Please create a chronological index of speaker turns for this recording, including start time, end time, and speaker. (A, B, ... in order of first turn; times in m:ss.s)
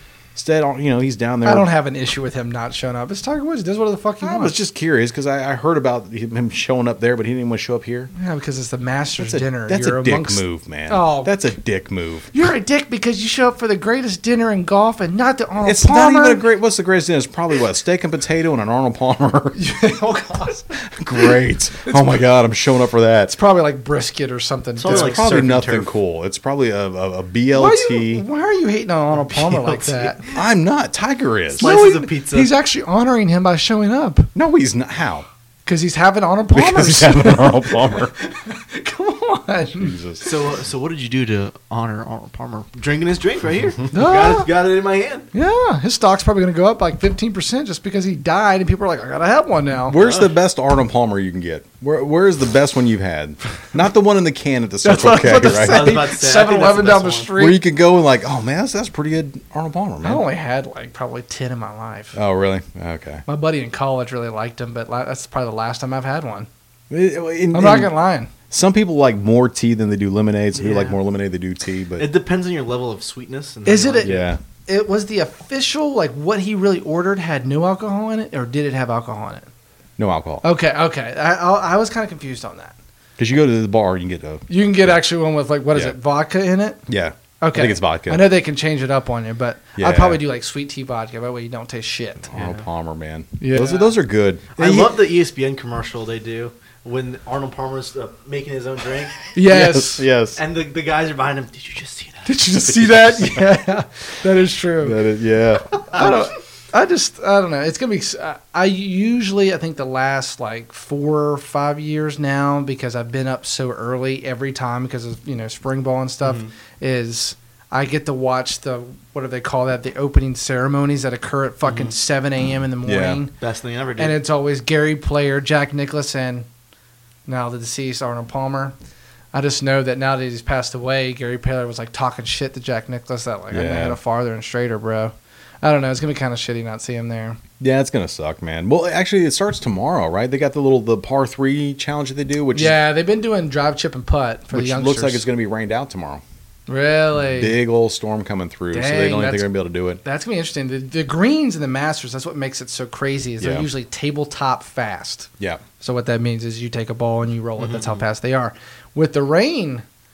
0:00.4-0:01.7 A
0:01.4-0:04.6 B
0:04.2-0:08.1 A
0:08.1-0:11.5 B
0:09.2-0:12.3 A
0:12.3-0:16.4 B
0:15.6-0:19.6 A
0:19.6-0:22.2 B
0:20.7-0:23.3 A
0:23.3-0:25.2 B
0:24.8-0:25.9 C
0:24.8-0:28.2 A
0:27.5-0:30.2 B
0:29.3-0:30.4 C
0:30.3-0:31.7 A
0:31.6-0:32.5 C
0:31.6-0:34.3 B
0:34.4-0:35.2 A
0:35.6-0:40.0 B
0:36.5-0:38.1 A
0:39.8-0:40.2 A
0:40.2-0:45.3 C
0:43.9-0:44.5 B
0:45.3-0:50.0 B
0:49.9-0:56.0 A
0:49.9-0:50.3 C
0:54.8-0:57.6 B
0:55.4-0:57.3 C
0:57.3-1:00.2 A
1:00.0-1:02.2 B
1:02.1-1:03.2 A
1:03.3-1:06.5 B
1:06.9-1:07.9 A
1:07.5-1:08.3 B
1:08.5-1:12.1 A
1:10.6-1:11.0 C
1:12.0-1:14.3 C
1:13.6-1:14.1 B
1:14.0-1:14.4 A
1:14.6-1:19.5 B
1:20.0-1:20.4 A
1:20.4-1:22.7 B
1:23.2-1:25.0 A
1:24.5-1:26.8 B
1:26.9-1:28.3 A
1:27.4-1:32.3 B
1:29.8-1:30.2 A
1:32.3-1:35.0 A
1:32.3-1:32.6 C
1:33.4-1:33.9 B
1:34.6-1:39.3 C
1:39.3-1:40.1 B
1:39.4-1:40.4 A
1:40.4-1:42.3 C
1:42.2-1:45.0 B
1:42.7-1:43.4 A
1:44.8-1:46.1 A
1:45.8-2:03.3 B
1:56.2-1:56.5 C
2:01.6-2:01.9 C
2:02.8-2:03.2 A
2:03.4-2:04.2 C
2:04.0-2:06.5 B
2:07.3-2:08.7 B
2:09.3-2:17.4 B
2:13.5-2:14.0 A
2:17.6-2:22.8 A
2:22.5-2:25.2 B
2:24.5-2:26.2 A
2:26.7-2:27.6 B
2:27.4-2:30.0 A
2:28.7-2:29.5 B
2:30.0-2:39.8 B
2:33.4-2:33.7 A
2:37.6-2:38.0 C